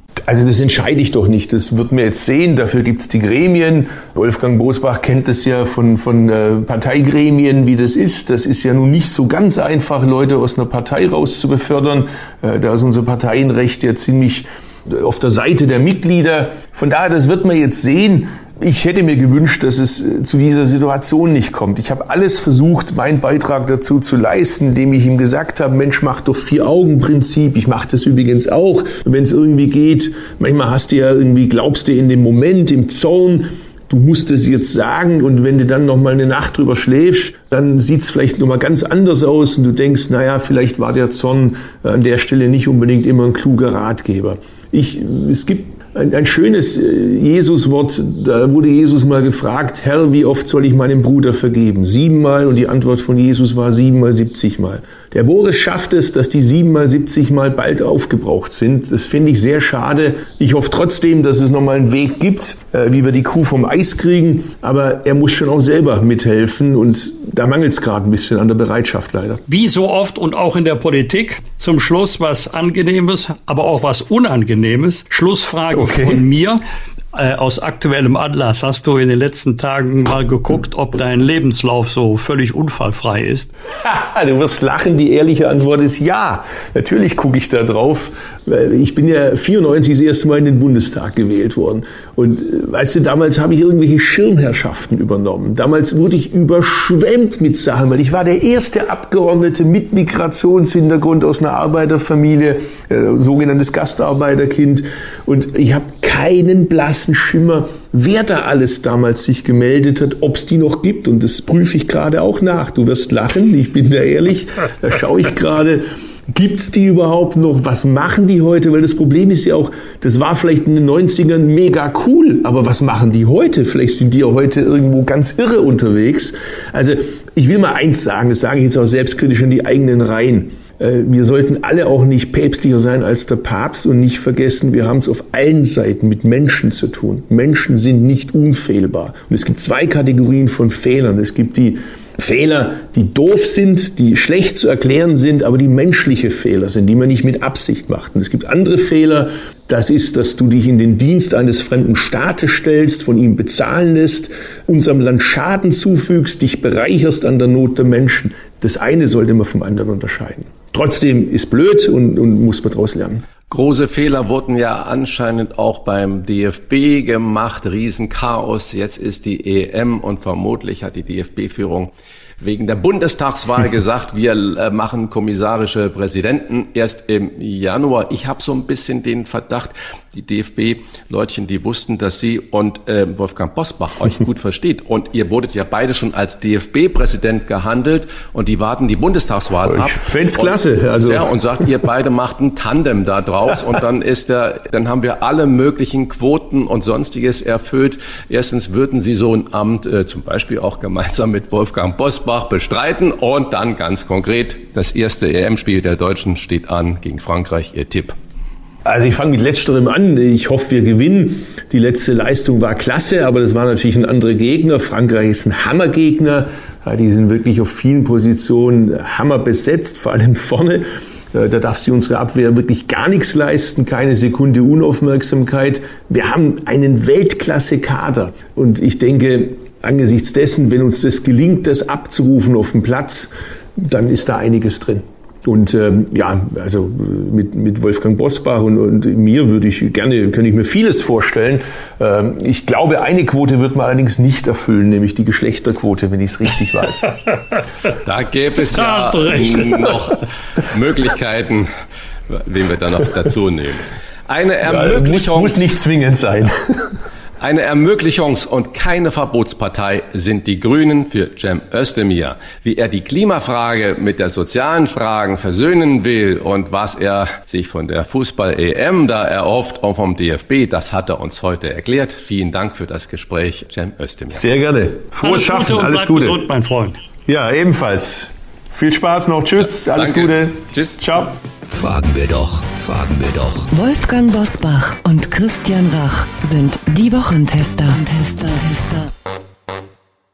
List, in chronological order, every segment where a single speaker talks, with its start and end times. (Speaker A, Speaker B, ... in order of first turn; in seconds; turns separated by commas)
Speaker A: 0.3-69.4, Speaker B: 69.5-76.6, Speaker A: 75.7-76.2, Speaker B: 77.1-83.5, Speaker A: 83.8-163.2, Speaker C: 163.5-208.2, Speaker A: 189.6-191.7, Speaker A: 208.8-247.1, Speaker C: 248.0-251.7, Speaker B: 248.7-249.9, Speaker C: 252.3-255.8, Speaker A: 254.6-256.9, Speaker C: 257.4-274.5, Speaker A: 274.3-276.4, Speaker B: 275.2-277.0, Speaker A: 277.2-281.3, Speaker C: 279.6-281.0, Speaker D: 281.7-283.7, Speaker E: 283.7-289.1